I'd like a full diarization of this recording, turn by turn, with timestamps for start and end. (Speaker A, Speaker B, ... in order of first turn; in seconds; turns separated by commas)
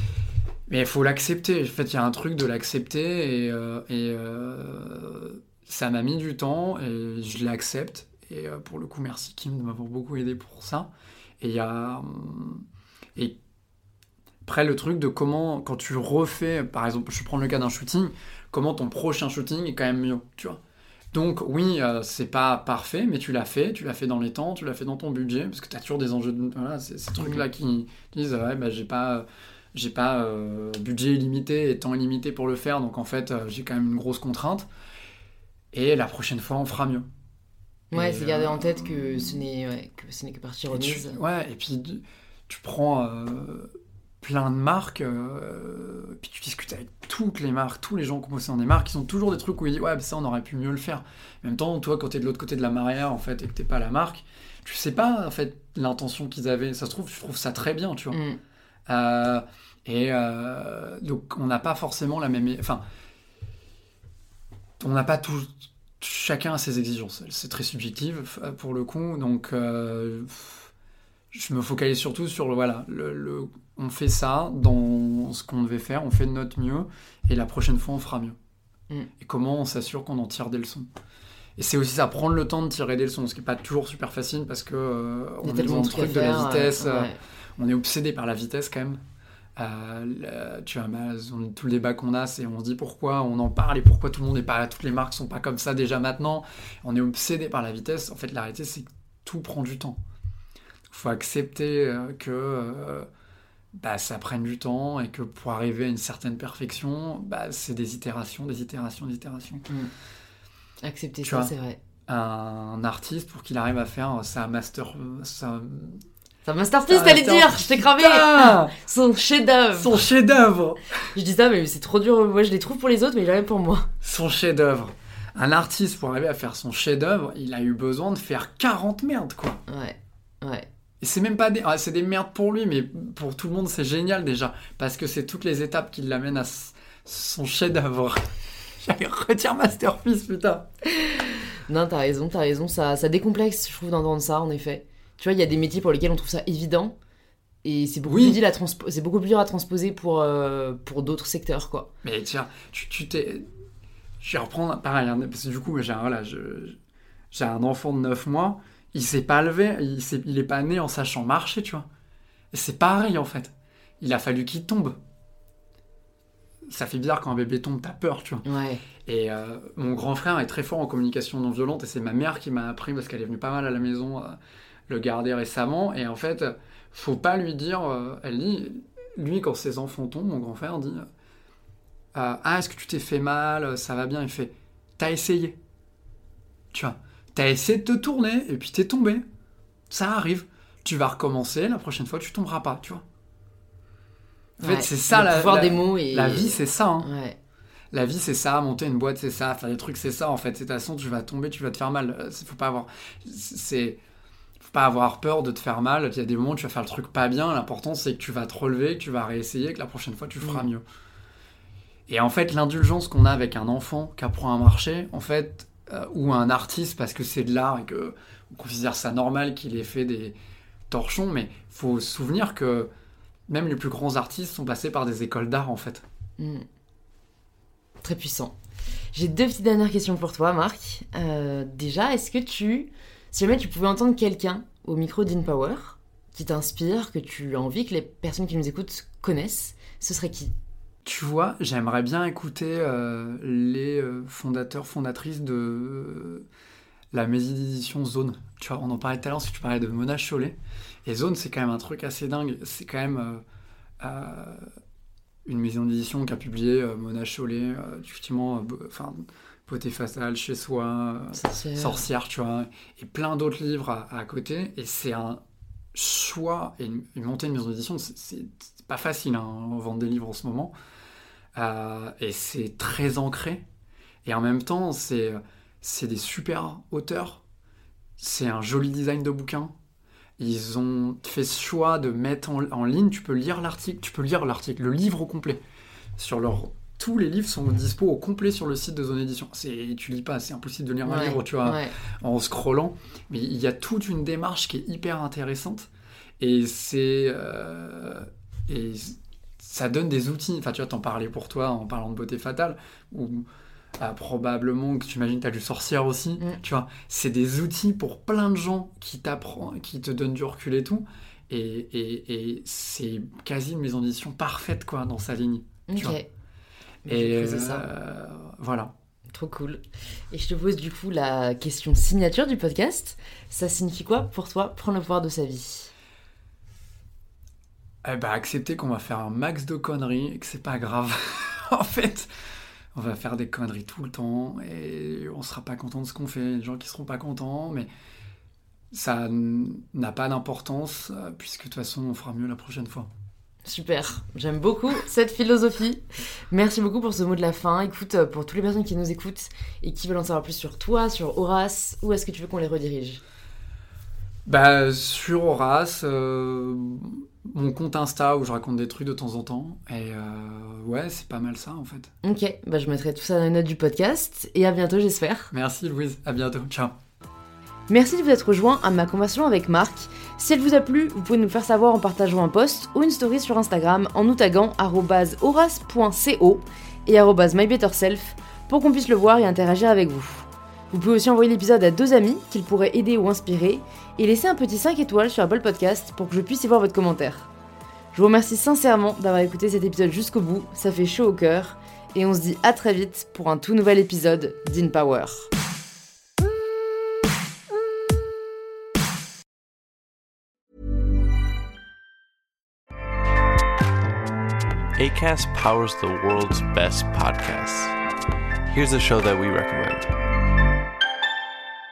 Speaker A: 0.7-12.6, Speaker A: 14.4-20.6, Speaker A: 21.1-34.7, Speaker B: 27.2-27.4, Speaker A: 35.7-37.1, Speaker A: 37.9-39.4, Speaker B: 37.9-41.2, Speaker A: 40.7-58.2, Speaker B: 58.1-58.4, Speaker A: 58.9-62.8, Speaker A: 64.8-70.7, Speaker A: 71.3-78.4, Speaker A: 79.2-80.9, Speaker A: 81.6-89.0, Speaker B: 85.4-87.2, Speaker A: 89.5-100.0, Speaker A: 100.9-103.1, Speaker A: 103.7-109.7, Speaker B: 110.8-111.8, Speaker A: 111.2-111.5, Speaker A: 112.1-116.0, Speaker B: 116.4-120.0, Speaker A: 116.9-118.7, Speaker A: 119.7-120.8, Speaker B: 121.1-123.9, Speaker A: 124.0-129.6, Speaker B: 129.7-130.7, Speaker A: 131.0-138.3, Speaker A: 138.8-140.7, Speaker B: 140.9-146.9, Speaker B: 147.6-151.9, Speaker A: 148.1-148.4, Speaker A: 152.0-153.4, Speaker A: 154.2-156.8, Speaker A: 157.3-161.8, Speaker A: 162.5-165.0, Speaker A: 166.7-168.4, Speaker B: 168.4-168.8, Speaker A: 169.0-181.1, Speaker A: 182.1-185.6, Speaker A: 186.7-189.2, Speaker A: 189.9-193.0, Speaker A: 194.6-197.1, Speaker B: 194.6-197.3, Speaker A: 197.9-204.0, Speaker A: 204.6-210.8, Speaker A: 212.1-220.3, Speaker A: 220.9-222.9, Speaker A: 223.5-226.0, Speaker B: 226.4-226.6, Speaker B: 228.0-228.5, Speaker B: 229.1-240.5, Speaker A: 241.0-246.4, Speaker A: 247.1-253.4, Speaker A: 254.0-254.7, Speaker A: 255.4-265.4, Speaker B: 261.3-262.0, Speaker A: 265.9-270.7, Speaker A: 271.5-273.6, Speaker A: 274.2-277.4, Speaker A: 278.2-279.7, Speaker A: 280.4-285.6, Speaker A: 286.2-303.4, Speaker B: 291.0-291.9, Speaker A: 304.0-316.2, Speaker B: 315.9-316.2, Speaker B: 317.0-317.9, Speaker A: 317.1-318.9, Speaker B: 319.3-325.9, Speaker A: 328.0-332.3, Speaker A: 332.9-337.9, Speaker A: 338.9-343.1, Speaker B: 343.6-353.2, Speaker A: 354.4-362.1, Speaker B: 362.2-365.5, Speaker A: 365.5-367.0, Speaker B: 367.9-387.5, Speaker B: 388.1-395.5, Speaker C: 404.9-407.9, Speaker C: 408.7-410.1